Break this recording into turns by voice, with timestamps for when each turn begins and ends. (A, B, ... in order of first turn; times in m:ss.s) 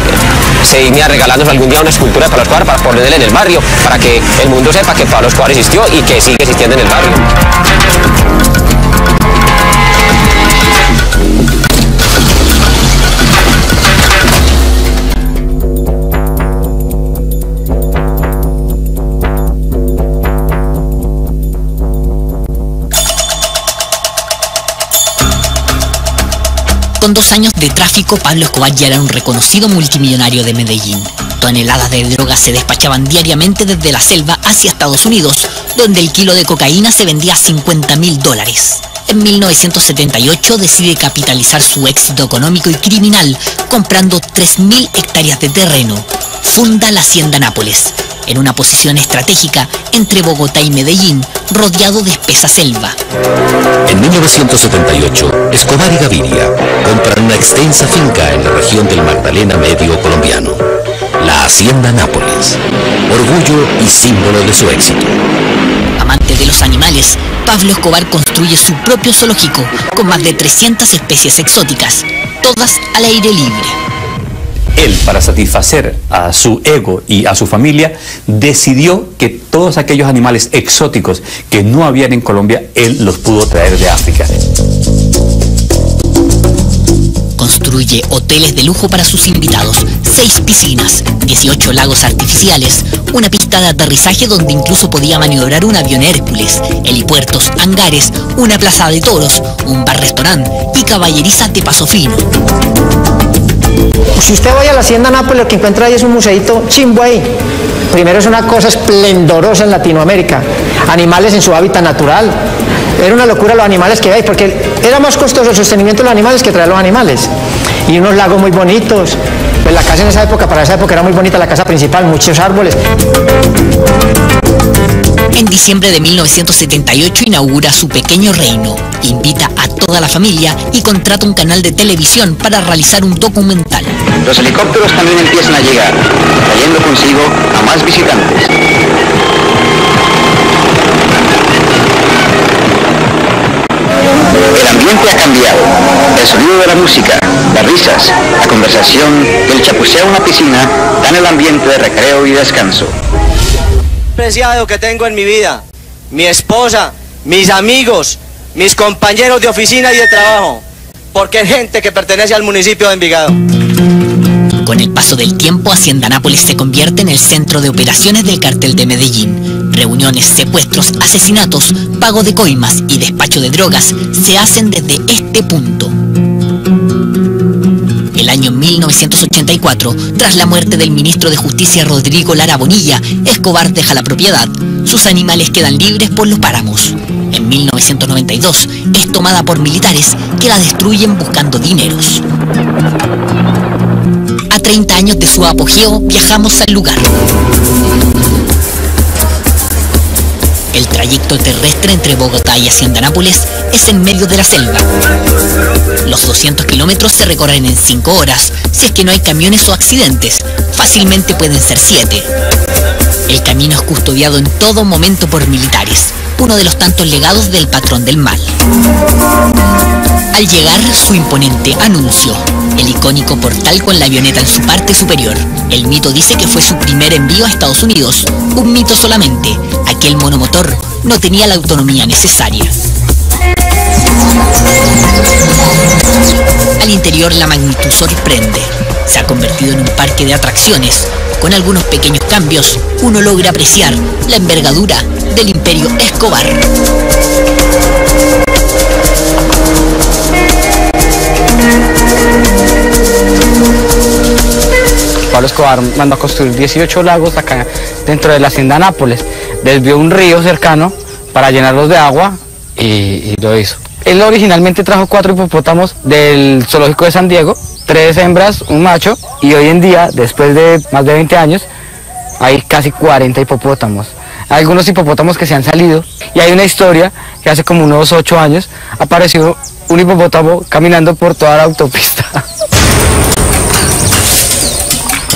0:00.6-0:07.2 A
0:27.0-0:53.0 B
0:53.9-1:00.6 C
1:01.2-1:05.2 C
1:06.0-1:13.8 B
1:14.8-1:24.3 D
1:27.4-1:42.2 B
1:44.2-1:47.3 E
1:47.9-1:52.3 E
1:53.0-1:57.3 E
1:57.9-2:02.8 E
2:05.3-2:13.9 B
2:14.2-2:18.5 F
2:24.5-2:32.9 F
2:34.2-2:40.6 G
2:41.1-2:43.4 G
2:44.6-2:55.9 B
2:58.1-3:12.2 B
3:14.5-3:17.1 B
3:20.7-3:24.8 B
3:26.0-3:32.3 B
3:33.3-3:38.5 B
3:40.3-3:52.8 B
3:56.8-4:06.6 B
4:15.3-4:31.7 H
4:32.4-4:42.4 H